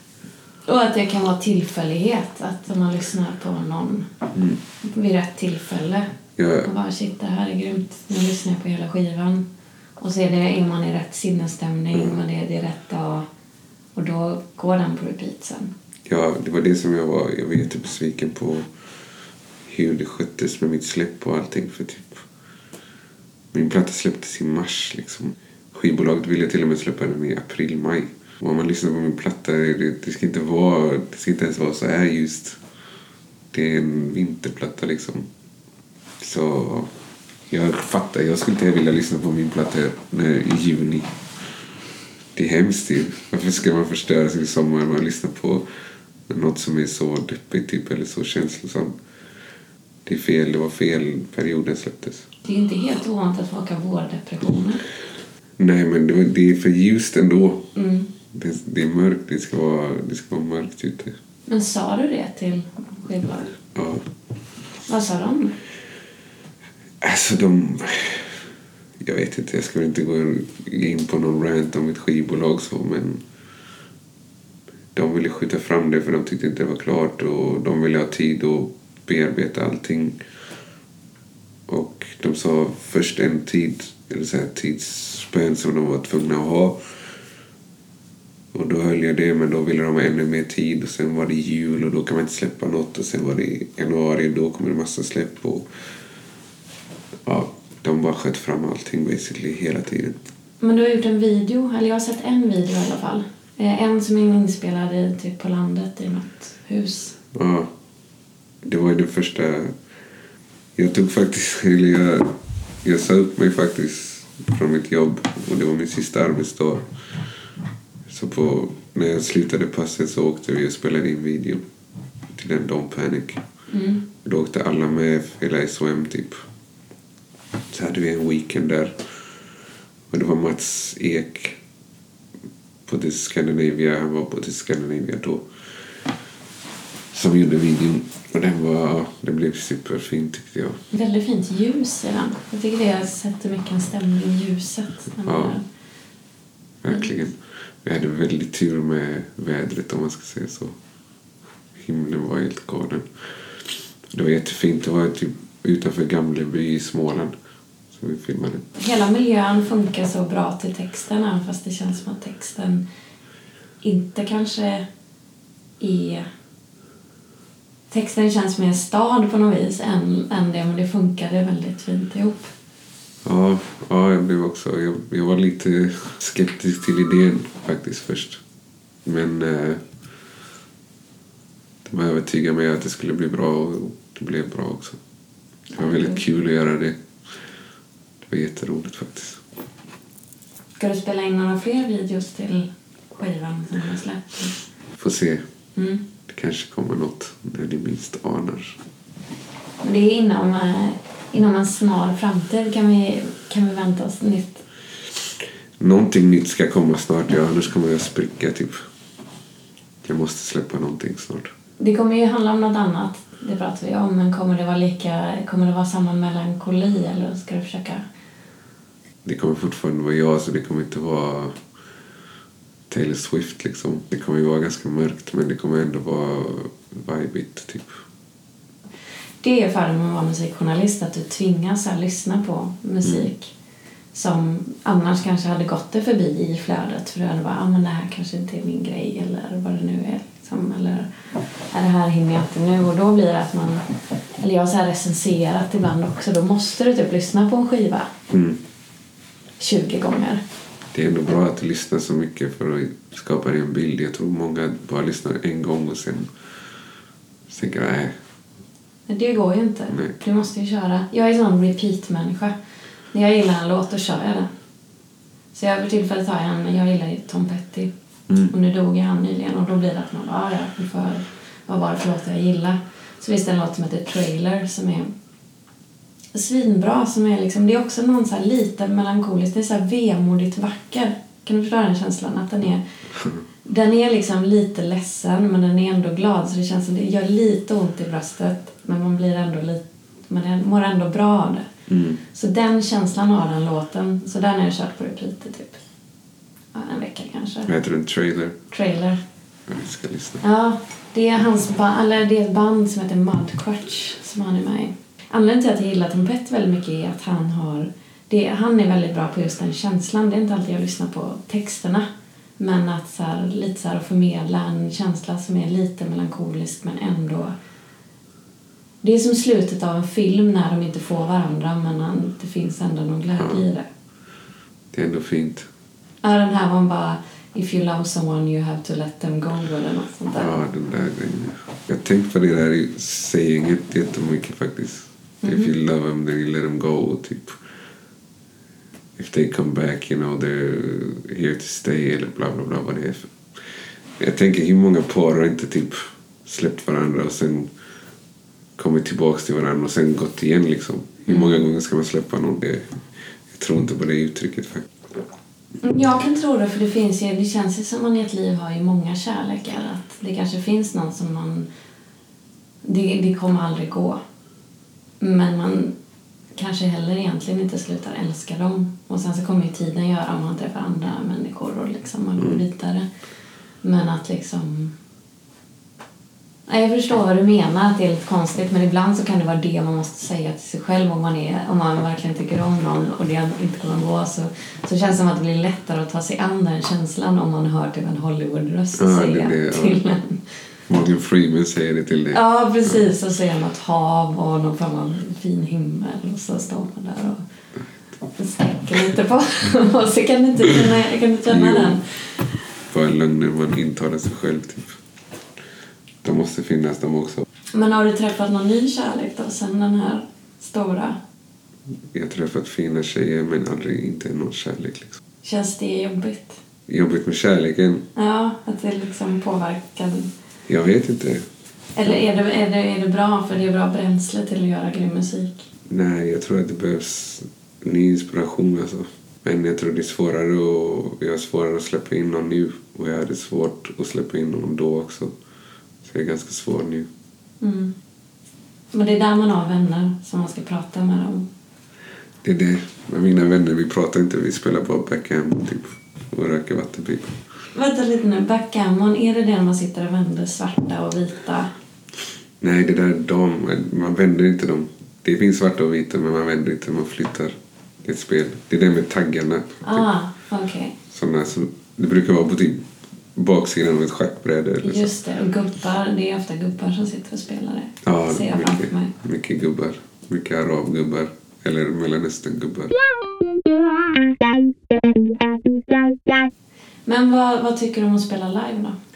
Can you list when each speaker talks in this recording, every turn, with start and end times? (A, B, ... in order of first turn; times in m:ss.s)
0:00.6-0:04.1 A
0:04.3-0:04.6 B
0:04.8-0:06.1 A
0:06.4-0:06.7 B
0:06.6-0:09.4 A
0:10.0-0:13.2 A
0:13.9-0:15.7 A
0:16.1-0:18.7 B
0:19.7-0:22.2 B
0:23.5-0:32.6 B
0:33.5-0:35.3 B
0:36.2-0:36.9 B
0:37.5-0:41.1 B
0:42.3-0:45.6 B
0:46.3-0:49.0 B
0:50.0-0:52.3 B
0:52.4-0:54.8 A
0:55.6-0:57.7 B
0:57.7-0:58.1 A
0:58.3-1:01.1 B
1:01.5-1:03.6 A
1:03.7-1:04.0 B
1:04.9-1:05.6 A
1:07.0-1:08.4 B
1:09.0-1:13.2 B
1:14.9-1:20.2 B
1:21.7-1:26.9 B
1:28.5-1:35.7 B
1:37.2-1:40.3 B
1:40.6-1:47.2 A
1:47.3-1:47.7 B
1:48.6-1:49.8 B
1:50.8-1:56.8 B
1:58.1-2:01.6 B
2:02.3-2:03.4 B
2:03.7-2:04.0 A
2:04.2-2:06.4 B
2:07.7-2:09.0 B
2:10.1-2:11.6 B
2:12.8-2:15.5 B
2:17.1-2:20.8 B
2:20.9-2:25.6 A
2:25.2-2:25.6 B
2:26.8-2:30.8 B
2:31.7-2:33.1 B
2:34.1-2:37.3 B
2:37.9-2:38.7 B
2:38.7-2:42.8 A
2:43.8-2:44.8 A
2:45.8-2:46.2 A
2:47.9-2:52.5 A
2:53.2-2:58.4 B
2:59.0-2:59.8 B
3:01.8-3:05.0 B
3:05.7-3:06.2 A
3:05.8-3:07.0 B
3:08.3-3:09.4 B
3:10.8-3:14.6 A
3:15.0-3:15.4 B
3:15.8-3:16.0 A
3:16.3-3:18.8 B
3:19.8-3:24.6 A
3:25.8-3:28.8 B
3:30.0-3:31.5 B
3:31.8-3:38.0 A
3:39.2-3:41.6 B
3:42.9-3:48.0 B
3:49.4-3:53.5 A
3:54.1-4:01.1 A
4:01.7-4:03.8 A
4:04.4-4:08.1 A
4:08.3-4:08.6 B
4:09.6-4:10.4 A
4:10.9-4:16.3 B
4:17.5-4:18.1 B
4:19.1-4:22.5 A
4:23.1-4:24.5 A
4:25.5-4:27.9 A
4:28.5-4:35.1 A
4:36.3-4:42.8 A
4:43.6-4:51.7 A
4:51.9-4:52.2 B
4:52.3-4:55.8 A
4:56.7-4:57.7 A
4:57.7-4:58.6 B
4:58.7-4:59.2 A
4:59.7-5:00.4 B
5:00.4-5:12.0 A
5:12.6-5:17.5 A
5:19.0-5:23.8 A
5:23.4-5:23.6 B
5:24.9-5:25.7 B
5:26.2-5:30.7 A
5:30.4-5:37.6 B
5:35.4-5:35.7 A
5:39.2-5:43.4 B
5:44.2-5:47.7 B
5:48.8-5:52.9 B
5:51.3-5:51.6 A
5:53.5-5:54.9 B
5:55.8-6:01.7 A
6:02.8-6:04.2 A
6:05.2-6:05.9 A
6:06.6-6:13.1 A
6:12.4-6:12.6 B
6:13.8-6:15.0 A
6:16.7-6:30.4 A
6:29.0-6:30.0 B
6:30.9-6:32.9 B
6:32.3-6:37.4 A
6:38.3-6:42.1 A
6:41.5-6:42.0 B
6:42.9-6:45.0 B
6:46.2-6:47.4 B
6:47.7-6:51.2 A
6:52.1-6:55.2 B
6:55.4-6:56.6 A
6:56.9-6:58.1 B
6:58.2-7:00.3 A
7:00.7-7:01.4 B
7:02.0-7:05.6 A
7:05.9-7:15.4 B
7:16.0-7:17.1 B
7:17.6-7:17.9 A
7:18.9-7:21.5 A
7:22.4-7:27.4 B
7:27.7-7:31.7 A
7:32.6-7:40.0 B
7:39.8-7:41.0 A
7:41.1-7:45.1 B
7:44.8-7:49.1 A
7:48.0-7:53.0 B
7:57.1-7:59.0 A